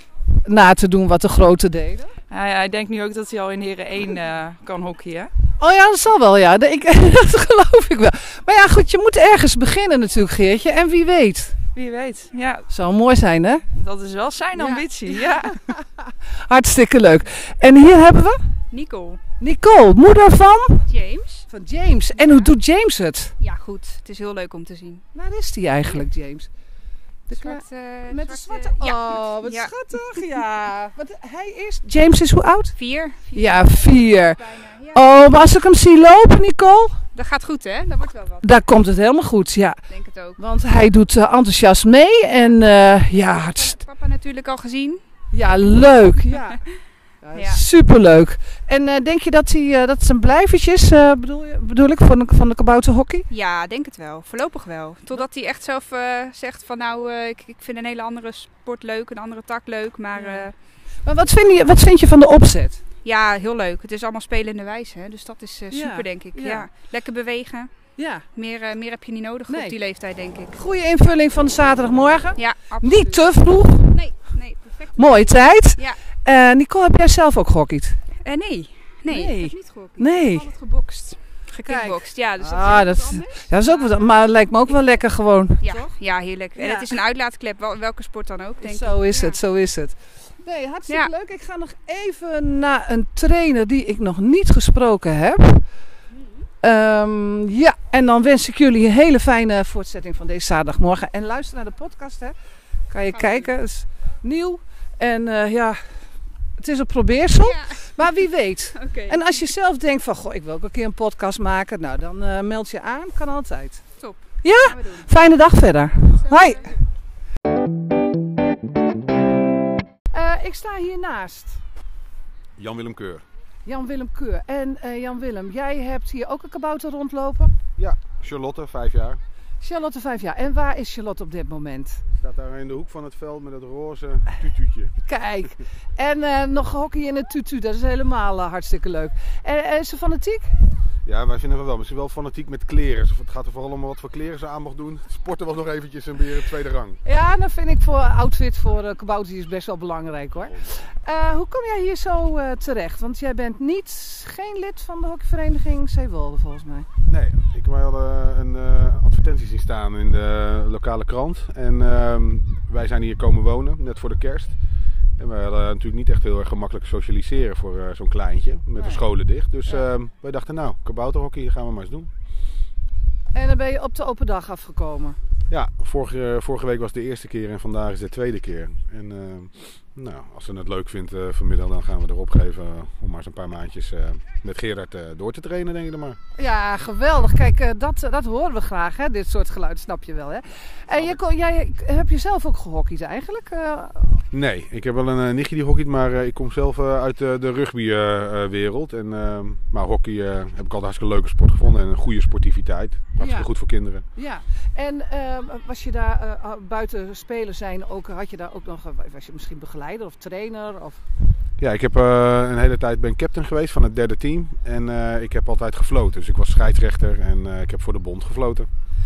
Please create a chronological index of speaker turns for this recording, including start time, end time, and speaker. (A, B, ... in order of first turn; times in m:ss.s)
0:00.4-0:02.1 A
0:02.3-0:05.3 B
0:05.6-0:11.5 A
0:11.7-0:12.6 B
0:12.7-0:13.6 A
0:13.7-0:15.6 B
0:14.5-0:14.8 A
0:15.7-0:18.4 A
0:18.7-0:19.2 C
0:19.4-0:20.8 A
0:20.9-0:21.4 C
0:21.5-0:23.3 A
0:22.1-0:22.5 C
0:23.4-0:25.0 C
0:25.1-0:26.5 A
0:27.3-0:29.9 C
0:27.3-0:32.7 A
0:32.7-0:35.0 C
0:33.3-0:34.4 A
0:34.9-0:37.0 A
0:37.1-0:38.4 C
0:38.4-0:39.8 A
0:39.9-0:40.4 C
0:40.4-0:43.8 A
0:43.2-0:45.0 C
0:45.3-0:46.6 A
0:47.2-0:53.3 A
0:47.3-0:47.6 C
0:53.3-1:00.5 C
1:00.1-1:00.5 A
1:01.0-1:02.8 A
1:03.0-1:07.7 C
1:05.7-1:06.7 A
1:08.0-1:08.2 A
1:08.3-1:10.6 C
1:09.5-1:09.8 A
1:10.5-1:13.9 A
1:12.4-1:16.0 C
1:15.0-1:18.0 A
1:18.2-1:24.0 C
1:19.1-1:20.5 A
1:21.6-1:25.9 A
1:25.6-1:29.4 C
1:26.6-1:27.0 A
1:28.6-1:35.6 A
1:36.6-1:42.3 A
1:42.9-1:45.8 A
1:43.1-1:43.4 C
1:46.6-1:53.8 A
1:47.4-1:48.0 C
1:48.7-1:49.4 C
1:54.0-1:55.1 C
1:54.4-1:56.7 A
1:56.2-1:56.7 C
2:00.1-2:01.6 A
2:02.6-2:03.2 D
2:03.6-2:07.5 A
2:07.8-2:09.2 D
2:09.6-2:12.0 A
2:12.2-2:14.9 D
2:15.0-2:20.6 A
2:21.0-2:27.0 D
2:27.0-2:36.9 A
2:37.1-2:44.6 D
2:45.2-2:52.1 D
2:53.3-2:55.2 A
2:55.5-3:06.2 D
3:06.4-3:14.2 A
3:14.3-3:24.0 D
3:23.2-3:23.5 A
3:24.2-3:31.0 A
3:31.6-3:38.7 D